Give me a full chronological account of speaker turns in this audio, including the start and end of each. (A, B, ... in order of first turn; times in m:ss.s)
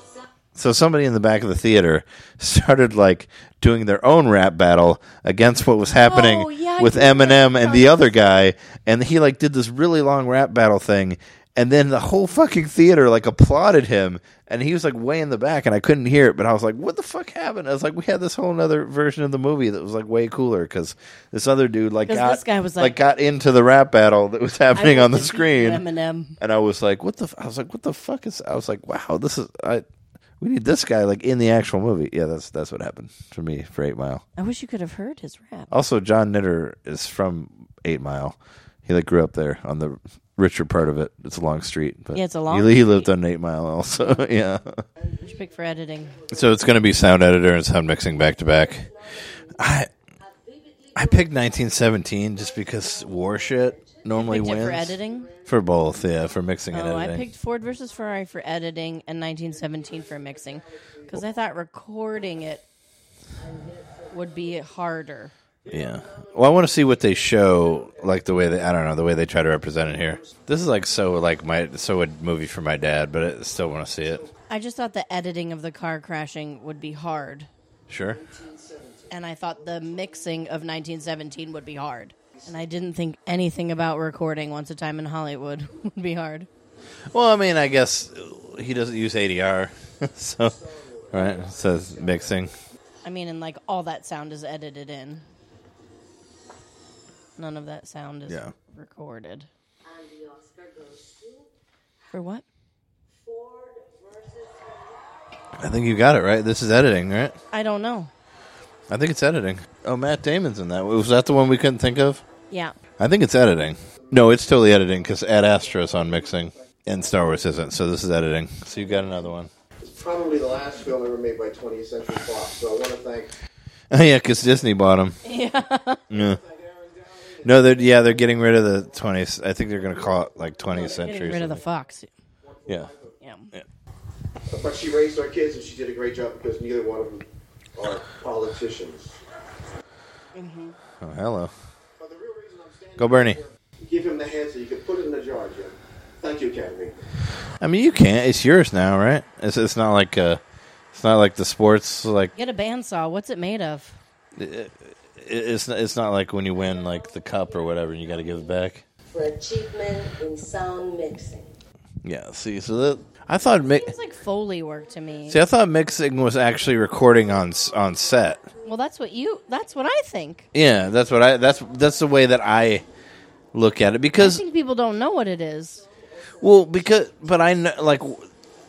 0:00.6-0:25.8 A
0:06.0-0:08.2 B
0:22.1-0:23.0 B
0:24.8-0:26.4 B
0:26.4-0:29.8 A
0:30.4-0:34.2 A
0:34.4-0:35.7 B
0:35.7-0:44.8 A
0:42.1-0:43.1 B
0:45.2-0:46.2 B
0:46.2-0:47.0 C
0:46.3-0:48.9 A
0:49.6-0:49.9 A
0:50.2-0:51.8 D
0:51.0-0:57.3 A
0:52.8-0:53.9 D
0:54.2-0:55.3 B
0:56.7-1:02.6 B
0:59.9-1:00.4 C
1:04.1-1:05.3 B
1:05.7-1:08.2 C
1:05.7-1:14.3 A
1:09.9-1:10.3 C
1:14.5-1:17.5 B
1:17.9-1:18.2 A
1:18.0-1:19.9 C
1:19.1-1:26.5 B
1:27.1-1:30.6 A
1:30.4-1:32.3 C
1:31.1-1:32.5 A
1:33.0-1:35.2 B
1:37.4-1:39.5 B
1:38.3-1:38.5 A
1:39.8-1:41.5 D
1:42.1-1:42.4 B
1:43.2-1:45.1 D
1:45.6-1:47.4 A
1:47.5-1:48.1 B
1:48.9-1:52.2 A
1:52.5-1:52.8 B
1:53.0-1:59.5 A
1:54.0-1:54.7 C
1:59.8-2:03.3 C
2:03.9-2:05.2 A
2:05.2-2:06.0 B
2:06.1-2:06.4 A
2:06.1-2:08.4 C
2:07.4-2:11.6 A
2:10.7-2:12.1 B
2:12.4-2:13.1 C
2:13.2-2:13.5 B
2:14.5-2:19.1 C
2:20.4-2:20.8 B
2:21.0-2:21.5 A
2:22.0-2:27.0 C
2:23.0-2:23.4 A
2:27.6-2:30.4 A
2:30.9-2:32.3 A
2:32.4-2:34.0 B
2:34.4-2:38.8 A
2:36.5-2:38.5 D
2:39.1-2:41.5 D
2:42.0-2:44.0 A
2:43.6-2:45.4 B
2:45.3-2:48.5 A
2:48.6-2:50.5 B
2:50.5-2:52.9 A
2:53.5-2:54.4 A
2:54.2-2:55.9 B
2:56.4-2:58.3 A